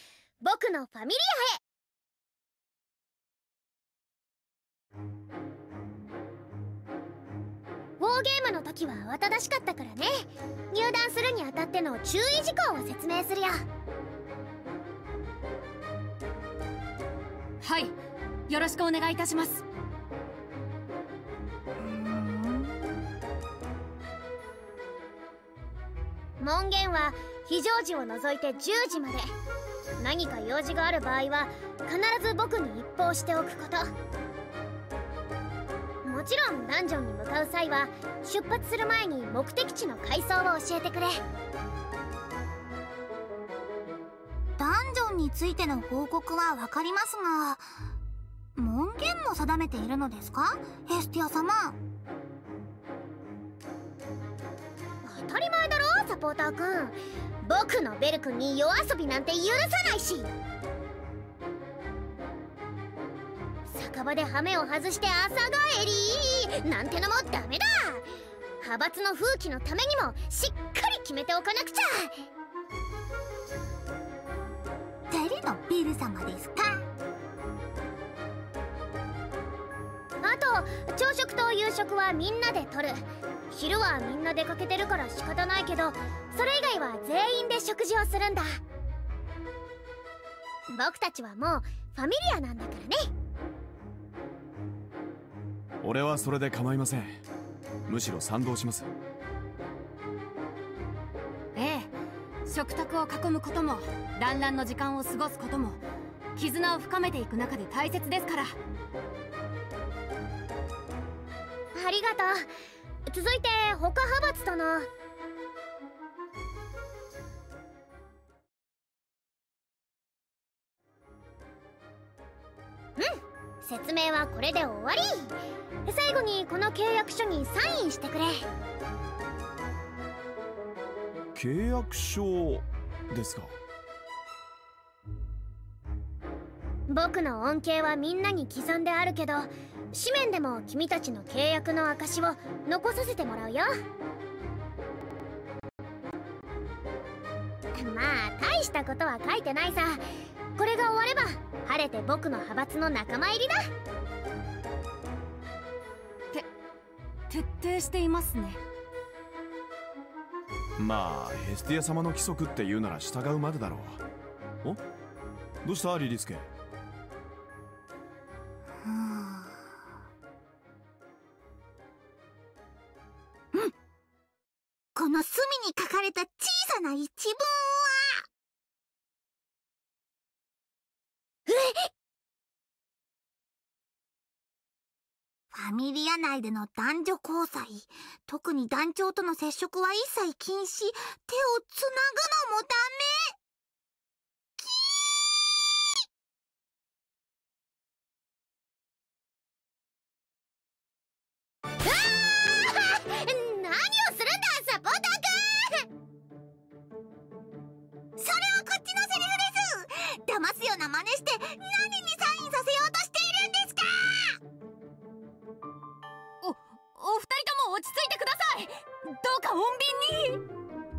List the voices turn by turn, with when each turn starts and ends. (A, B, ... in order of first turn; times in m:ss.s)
0:00.4-0:01.6 A
0:08.0-0:13.6 A
0:17.6-0:17.9 B
0:18.5-0:19.6 B
0:21.8-0:22.9 C
0:26.4-0:29.2 A
0:30.0-0:33.9 A
0:36.0-0:41.2 A
0:44.6-0:47.6 C
0:48.6-0:51.8 C
0:55.0-1:00.3 A
1:03.6-1:08.1 A
1:08.6-1:12.1 A
1:15.1-1:16.9 C
1:20.2-1:28.6 A
1:30.7-1:33.1 A
1:35.8-1:37.2 D
1:37.9-1:38.9 D
1:41.5-1:41.9 B
1:42.4-1:45.8 B
1:46.4-1:48.6 B
1:51.7-1:52.4 A
1:53.1-1:54.9 A
2:03.0-2:08.4 A
2:11.3-2:13.6 D
2:16.9-2:23.7 A
2:27.7-2:30.0 A
2:30.6-2:33.7 A
2:37.3-2:38.6 B
2:40.8-2:44.0 D
2:45.6-2:46.5 D
2:48.8-2:49.6 C
2:54.9-2:58.2 C
3:01.5-3:01.9 A
3:05.5-3:13.3 C
3:14.6-3:15.5 C
3:21.8-3:25.9 A
3:28.2-3:34.4 C
3:36.4-3:40.4 B